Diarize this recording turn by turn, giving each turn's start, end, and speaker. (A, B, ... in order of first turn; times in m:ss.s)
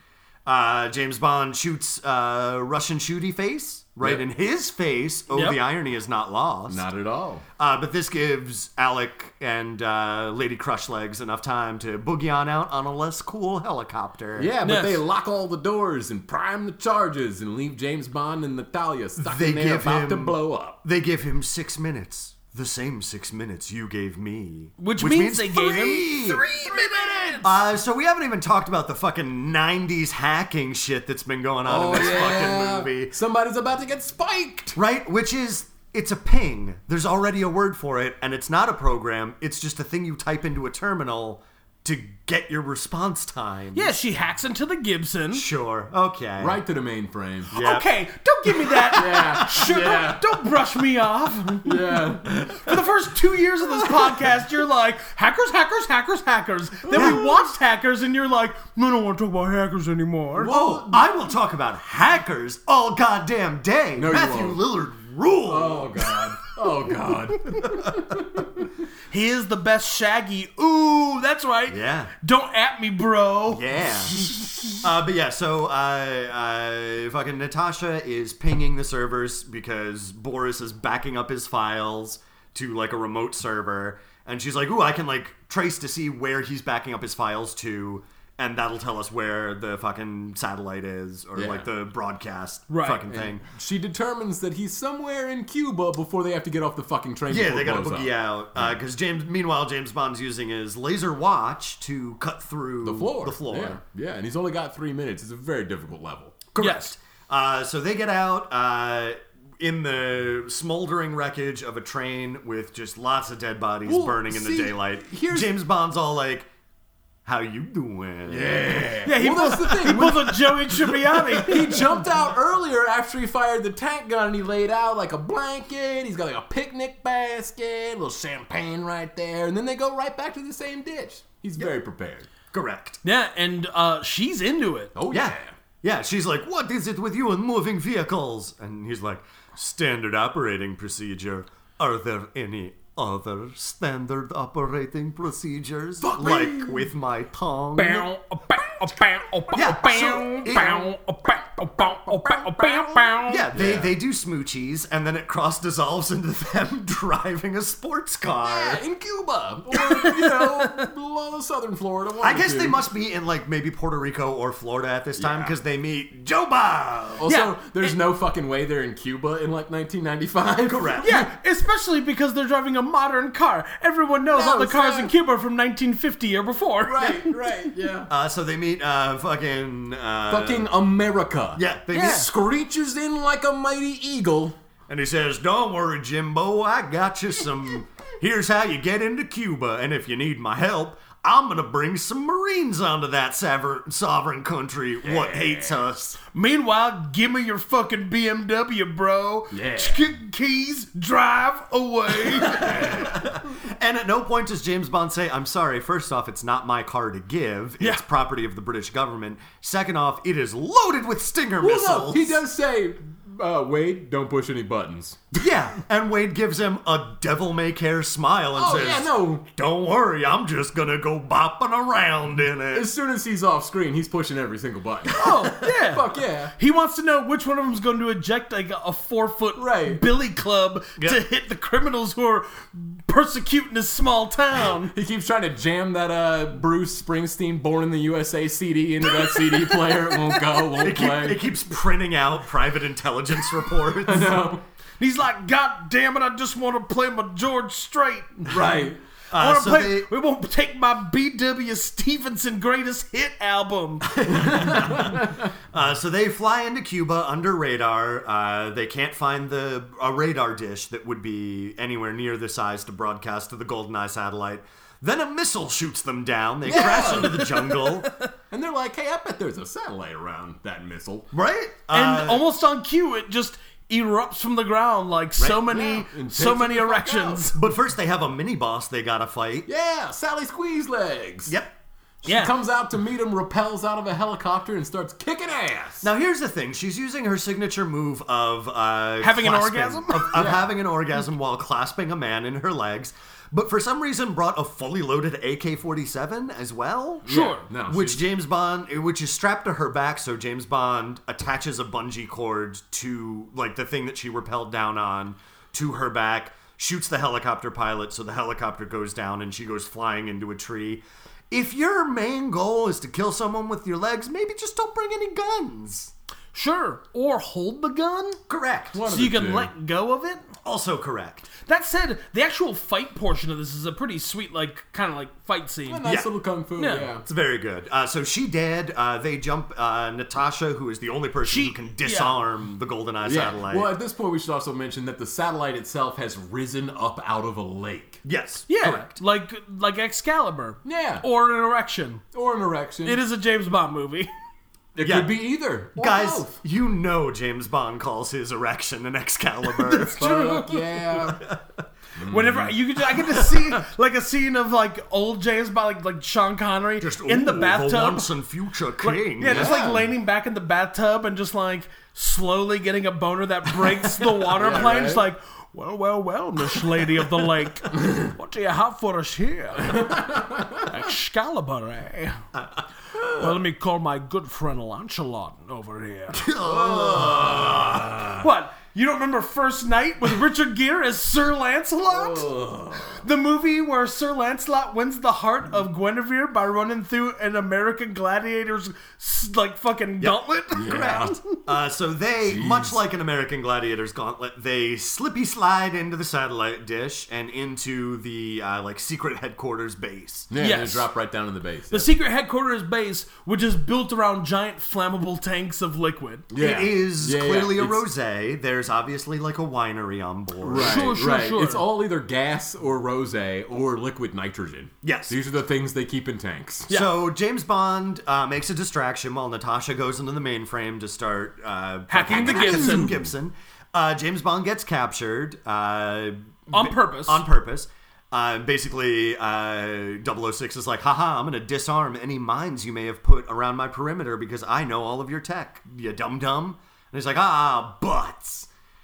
0:00.4-0:06.8 A
0:05.3-0:05.6 B
0:06.7-0:07.4 C
0:07.6-0:14.5 A
0:14.4-0:20.8 C
0:14.6-0:15.0 B
0:19.2-0:26.4 A
0:24.8-0:27.5 B
0:26.7-0:27.3 C
0:27.4-0:33.1 A
0:31.7-0:34.8 C
0:34.7-0:43.9 A
0:43.7-0:45.5 B
0:45.3-0:46.6 A
0:46.4-0:47.5 C
0:47.5-0:47.9 A
0:47.5-1:00.5 B
0:48.6-0:49.3 A
0:48.9-0:50.4 C
0:51.6-0:52.5 C
0:56.8-0:57.2 C
0:56.9-0:57.4 A
1:00.4-1:06.3 A
1:00.4-1:01.0 C
1:04.0-1:04.6 C
1:05.5-1:08.7 C
1:09.1-1:13.8 B
1:11.7-1:12.1 A
1:13.5-1:33.4 A
1:31.4-1:31.7 C
1:32.7-1:33.0 B
1:33.1-1:38.8 C
1:37.3-1:43.8 A
1:42.8-1:46.4 C
1:46.5-1:56.5 A
1:46.6-1:46.9 B
1:53.8-1:55.5 C
1:57.2-1:58.6 A
1:58.3-2:12.3 C
1:59.0-2:01.9 B
2:12.5-2:13.0 A
2:13.0-2:14.9 B
2:14.9-2:15.5 C
2:15.1-2:28.1 A
2:26.0-2:26.9 C
2:27.8-2:33.5 B
2:29.5-2:30.9 A
2:33.2-2:38.8 A
2:33.5-2:33.9 C
2:38.4-2:42.8 C
2:39.9-2:40.8 B
2:42.2-2:47.2 A
2:45.2-2:45.5 C
2:47.2-2:51.3 C
2:47.3-2:47.9 B
2:50.6-2:51.2 A
2:51.0-2:57.5 B
2:54.3-2:55.1 C
2:56.8-2:58.1 C
2:58.1-3:00.7 A
3:00.3-3:04.6 C
3:01.5-3:02.3 A
3:01.9-3:02.3 B
3:04.9-3:16.2 A
3:15.0-3:15.8 C
3:16.3-3:22.9 B
3:19.5-3:20.1 C
3:22.4-3:32.4 A
3:22.5-3:23.1 C
3:31.6-3:35.4 C
3:35.4-3:42.9 A
3:38.6-3:39.4 C
3:42.7-3:46.5 C
3:45.1-3:46.0 B
3:45.2-3:45.5 A
3:46.6-3:54.9 B
3:49.6-3:50.0 C
3:54.6-4:01.4 C
3:59.0-4:00.6 B
4:00.8-4:04.4 A
4:04.0-4:04.6 C
4:05.0-4:14.1 B
4:08.5-4:09.0 C
4:09.3-4:10.1 A
4:14.2-4:28.1 A
4:14.2-4:15.4 C
4:26.6-4:27.6 C
4:26.7-4:28.2 B
4:28.5-4:31.3 C
4:31.3-4:32.5 A
4:31.9-4:37.6 B
4:35.4-4:36.0 A
4:35.7-4:37.4 C
4:37.5-4:39.7 A
4:39.7-4:41.5 C
4:41.5-4:41.7 A
4:42.2-4:46.1 C
4:42.2-4:42.5 B
4:46.0-5:16.1 A
4:49.2-4:50.4 B
4:50.4-4:50.6 C
4:57.2-4:58.2 C
4:57.3-4:57.6 B
5:16.5-5:18.4 B
5:18.5-5:19.0 A
5:18.9-5:19.7 C
5:19.0-5:20.4 B
5:20.6-5:21.5 A
5:21.6-5:26.0 B
5:25.9-5:27.2 C
5:26.8-5:27.1 B
5:27.2-5:33.9 A
5:31.4-5:32.4 B
5:33.2-5:38.2 C
5:38.2-5:39.2 A
5:38.7-5:42.2 B
5:40.8-5:41.2 C
5:42.3-5:43.2 C
5:43.0-5:44.3 B
5:44.9-5:46.5 C
5:45.0-5:45.4 A
5:45.9-5:50.2 A
5:49.7-5:51.2 B
5:50.2-5:51.5 C
5:52.2-5:52.8 C
5:52.2-5:58.3 B
5:53.1-5:53.6 A
5:57.0-5:59.8 A
5:59.0-6:12.4 B
5:59.4-6:00.1 C
6:04.5-6:05.2 C
6:10.0-6:10.8 C
6:13.2-6:16.5 B
6:16.3-6:18.3 A
6:16.6-6:18.4 C
6:18.4-6:22.5 B
6:22.1-6:23.2 C
6:23.1-6:31.6 B
6:30.2-6:40.5 A
6:30.7-6:31.3 C
6:32.4-6:32.9 C
6:40.5-6:42.1 C
6:40.6-6:41.1 B
6:41.9-6:46.5 B
6:46.5-6:48.1 C
6:46.6-6:51.1 A
6:50.6-6:56.9 C
6:50.8-6:51.8 B
6:55.0-6:55.4 A
6:56.9-6:57.1 B
6:56.9-7:18.7 A
7:02.1-7:03.1 B
7:02.3-7:03.3 C
7:06.7-7:07.4 B